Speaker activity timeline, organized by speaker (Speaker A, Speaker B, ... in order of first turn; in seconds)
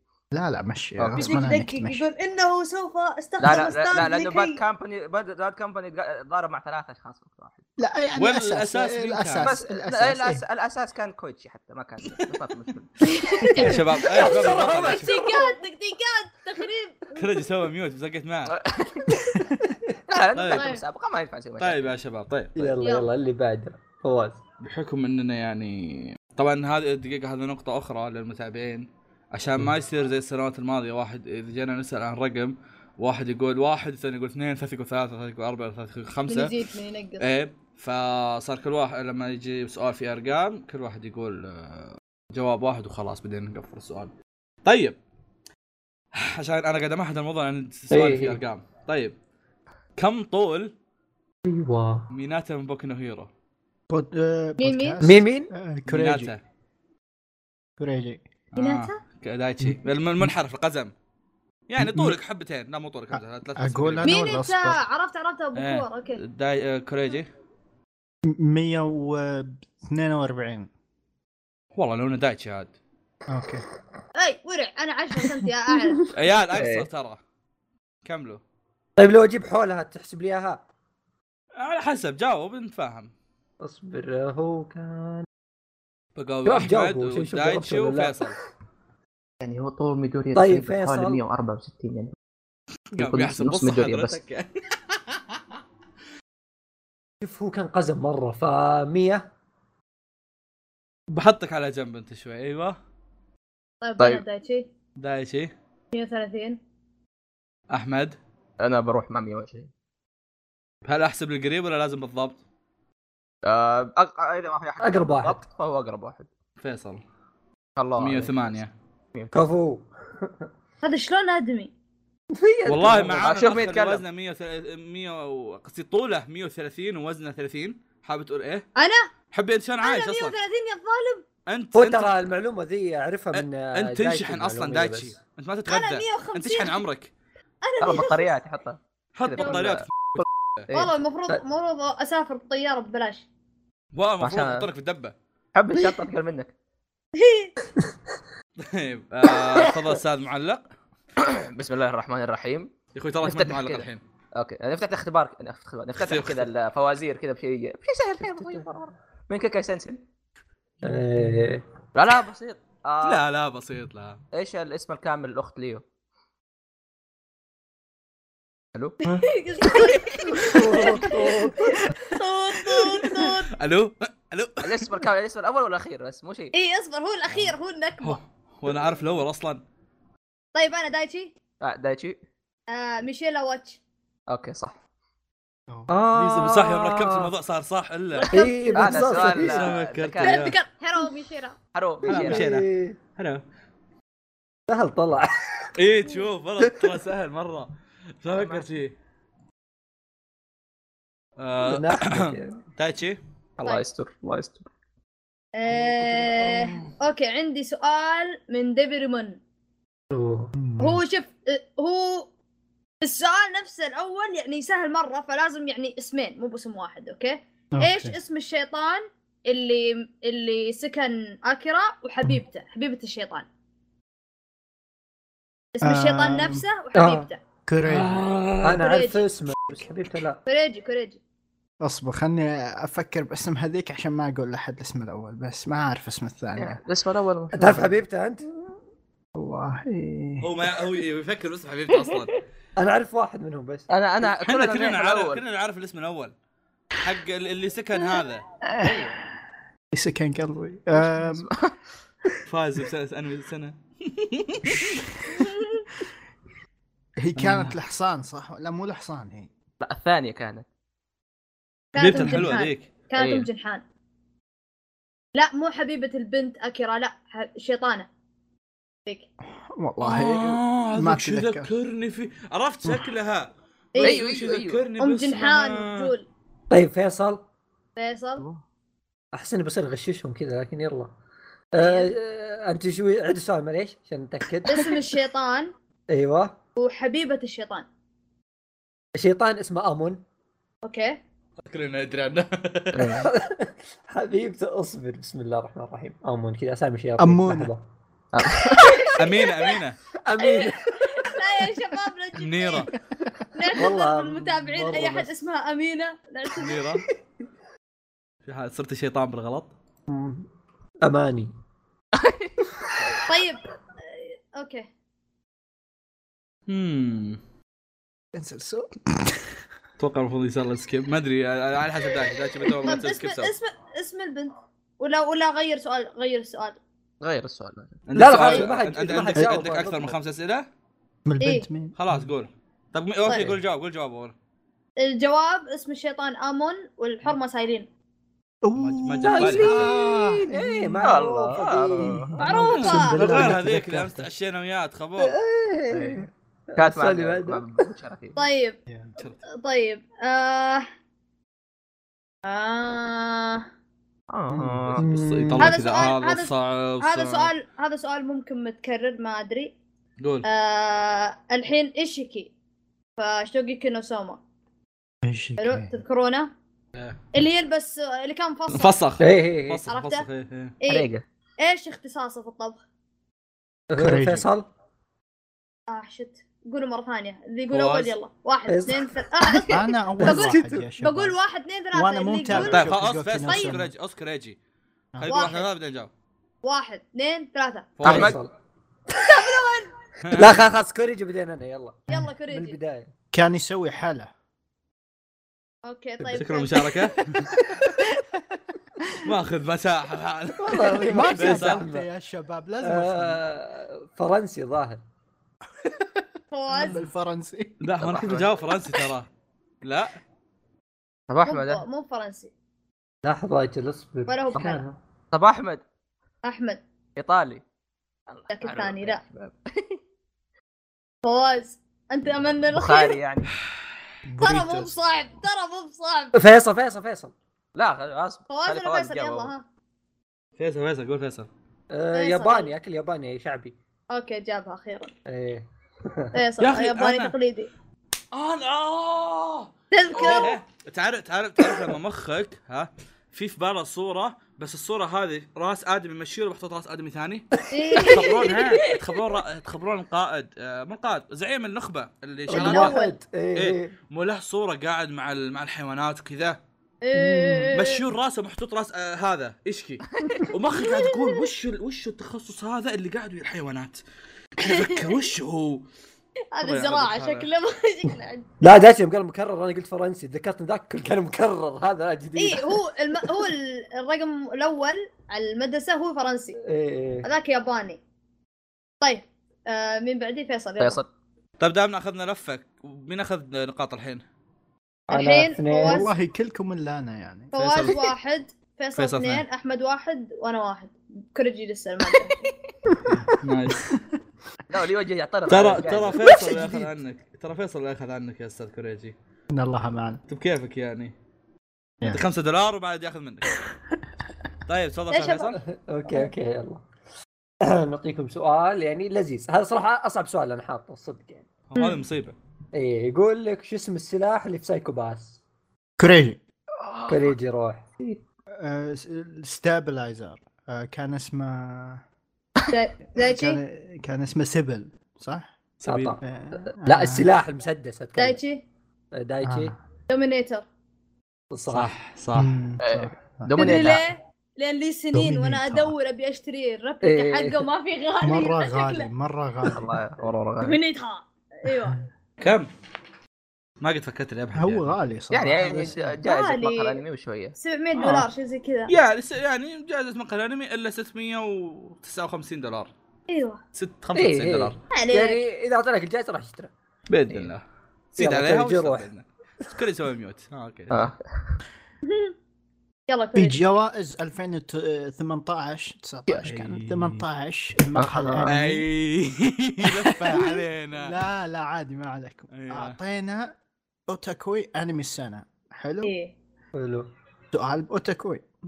Speaker A: 0.3-2.0, 7.8-10.4, 19.3-19.6, 53.9-56.3, 57.8-58.2, 59.6-60.3, 61.8-62.2, 63.1-64.8, 68.2-70.7, 73.3-73.6, 210.6-211.0, 217.7-218.2, 225.8-226.6, 227.7-228.3, 231.8-236.8, 239.3-240.7, 248.7-249.1, 249.9-251.5, 257.2-259.5, 269.8-271.7, 297.2-297.7, 318.3-319.6, 331.2-331.9, 338.6-341.1, 342.0-344.2, 354.5-355.0, 365.2-365.9, 373.9-374.5, 379.7-381.4, 381.9-383.9, 393.3-394.3, 401.1-403.4, 405.8-407.7, 424.2-424.9, 485.8-487.5, 496.4-496.8, 499.5-500.2, 516.0-516.4, 518.6-522.0, 523.1-525.5, 526.2-527.3, 529.4-529.8, 532.3-533.9, 535.1-535.9, 538.2-539.9, 544.5-546.1, 563.3-568.9, 569.8-573.5, 574.1-576.1, 577.5-578.5
Speaker B: 1.0-1.4, 3.4-7.6, 9.4-12.9, 18.5-19.2, 20.1-21.9, 76.5-76.9, 89.4-92.1, 92.9-94.2, 104.0-104.2, 108.6-109.7, 113.4-116.3, 117.8-118.6, 123.2-124.0, 137.8-140.9, 144.2-144.7, 145.5-146.5, 151.2-152.7, 153.2-160.0, 161.9-163.2, 164.3-165.8, 169.6-170.6, 174.6-176.5, 181.6-182.2, 184.3-184.8, 188.7-190.5, 191.7-192.5, 198.3-198.7, 203.6-204.7, 236.6-238.0, 243.9-245.4, 248.8-249.1, 251.1-251.7, 259.8-260.6, 263.1-263.5, 274.0-274.8, 292.9-293.3, 298.3-299.1, 312.1-313.2, 327.2-328.0, 341.0-342.3, 345.9-348.4, 354.3-355.0, 370.9-371.2, 388.1-388.3, 408.0-408.5, 411.3-411.8, 415.3-415.8, 417.2-417.6, 418.3-420.0, 422.7-423.5, 427.7-429.5, 460.1-460.4, 480.8-481.1, 492.1-492.5, 494.7-496.2, 516.8-517.3, 532.8-534.0, 539.6-540.8, 545.3-547.5, 560.9-561.6, 568.0-568.5
Speaker C: 1.1-4.6, 13.0-17.4, 20.4-20.8, 22.8-23.1, 36.3-37.2, 54.6-55.0, 58.5-59.0, 64.0-66.2, 74.2-76.1, 103.8-104.7, 105.9-106.6, 120.8-121.7, 128.8-129.1, 129.8-131.2, 135.7-136.8, 137.6-138.2, 139.3-139.6, 140.7-143.2, 147.2-147.5, 169.1-173.5, 176.5-178.2, 180.5-181.3, 182.7-183.8, 188.2-189.1, 190.2-191.6, 205.5-209.4, 210.8-212.3, 213.0-223.4, 225.7-227.4, 228.8-229.3, 230.4-231.2, 255.4-255.8, 261.9-263.8, 265.3-268.1, 273.9-274.2, 275.0-276.3, 277.9-278.4, 281.8-282.1, 284.6-285.7, 286.8-287.9, 290.8-291.2, 300.4-302.9, 303.5-306.9, 313.2-314.9, 322.8-326.8, 328.3-328.7, 331.4-331.7, 333.2-333.5, 335.0-337.9, 342.4-343.3, 348.4-348.8, 349.5-350.9, 352.4-353.6, 355.6-359.7, 360.4-362.5, 363.2-364.4, 365.6-366.5, 367.3-368.9, 369.9-370.3, 370.8-371.1, 371.6-372.8, 375.9-383.8, 385.2-385.7, 386.6-388.0, 389.2-389.9, 392.1-392.8, 395.8-397.1, 406.5-407.0, 411.4-412.5, 414.3-414.8, 416.4-416.8, 418.5-419.2, 421.2-423.2, 424.4-426.4, 428.5-429.6, 432.1-432.7, 434.1-435.1, 436.3-437.7, 439.9-440.6, 447.7-449.0, 452.5-453.1, 457.0-458.0, 460.8-461.4, 464.6-465.1, 466.5-468.5, 472.4-476.6, 477.2-478.0, 479.0-481.0, 485.1-486.1, 487.5-492.5, 505.1-505.6, 522.7-523.6, 528.2-528.6, 530.1-530.6, 533.5-539.1, 540.6-542.0, 546.2-547.0, 547.6-548.9, 553.3-553.6, 554.9-555.4, 562.0-562.3, 563.1-563.6, 576.0-576.3
Speaker D: 8.1-9.5, 13.5-15.2, 17.1-18.5, 20.4-20.7, 21.6-22.8, 24.6-36.6, 37.2-44.1, 44.6-45.0, 46.1-49.1, 50.0-50.7, 52.1-53.3, 55.9-56.4, 58.5-60.9, 61.7-64.1, 65.5-67.3, 71.7-72.7, 76.1-77.2, 78.0-78.4, 81.5-83.1, 86.2-88.3, 92.9-95.4, 101.1-102.8, 105.0-105.5, 107.7-108.2, 110.8-112.4, 116.6-117.0, 118.0-118.7, 122.7-128.7, 129.3-130.3, 131.5-132.1, 133.3-137.1, 139.1-140.7, 143.9-145.1, 148.6-150.6, 152.9-154.0, 156.0-156.4, 163.0-164.2, 173.6-174.8, 177.3-179.6, 186.1-188.3, 189.2-190.6, 192.1-193.4, 195.8-197.7, 198.2-198.9, 201.4-203.2, 206.5-206.8, 227.8-228.8, 240.4-242.4, 244.4-246.3, 246.9-248.4, 252.4-255.1, 257.4-257.7, 261.9-262.9, 270.0-276.1, 291.6-293.2, 299.1-300.0, 302.4-302.9, 306.6-307.1, 308.4-309.7, 316.7-317.4, 320.0-323.5, 328.1-330.7, 331.9-334.3, 338.8-339.9, 342.6-345.4, 355.0-357.5, 360.2-360.4, 368.7-370.7, 377.7-378.1, 382.5-384.6, 385.2-386.1, 388.0-388.4, 390.2-390.6, 396.3-397.5, 399.2-401.8, 407.8-409.3, 409.8-410.2, 430.6-431.5, 436.6-437.3, 438.3-453.0, 453.5-456.6, 457.7-464.0, 464.6-465.8, 466.6-467.5, 481.6-484.2, 487.6-488.1, 489.0-489.4, 493.4-493.9, 495.5-499.1, 500.3-501.1, 502.0-503.6, 504.7-505.6, 511.7-512.4, 525.8-526.2, 531.7-532.5, 542.4-542.7, 543.8-544.9, 548.9-552.9, 553.7-554.8, 557.1-557.6, 558.1-561.1, 566.4-567.2, 568.5-571.1, 572.5-573.0
Speaker E: 13.6-15.5, 22.6-24.4, 47.9-48.4, 51.5-52.0, 55.0-55.5, 79.0-80.6, 83.6-85.2, 86.5-88.3, 90.3-91.2, 97.2-99.2, 114.8-115.4, 119.3-120.5, 122.3-123.4, 131.7-135.2, 160.8-161.6, 170.3-171.7, 185.9-187.3, 188.3-189.7, 192.0-193.0, 194.7-195.7, 201.6-202.6, 210.1-210.8, 226.9-227.3, 228.6-230.4, 237.5-238.5, 242.8-243.9, 276.7-277.4, 279.3-281.1, 281.7-285.1, 286.1-286.6, 289.1-290.2, 293.2-297.8, 298.7-299.1, 300.2-301.4, 303.7-305.3, 310.1-310.5, 311.0-311.5, 328.1-330.2, 339.2-344.2, 345.2-347.7, 355.0-355.8, 369.2-369.8, 373.9-374.7, 378.7-379.7, 380.2-380.9, 388.0-388.5, 390.3-393.1, 397.7-398.0, 400.6-402.1, 402.8-405.0, 413.2-415.0, 426.4-427.3, 431.9-433.8, 435.2-436.3, 447.7-448.2, 452.5-453.9, 457.1-457.7, 468.6-473.4, 476.6-477.3, 485.1-486.1, 505.6-506.8, 507.6-511.4, 512.7-515.4, 517.1-517.9, 525.9-528.4, 529.1-529.7, 531.5-531.9, 537.0-537.7, 554.1-556.7, 558.2-559.1, 576.7-577.1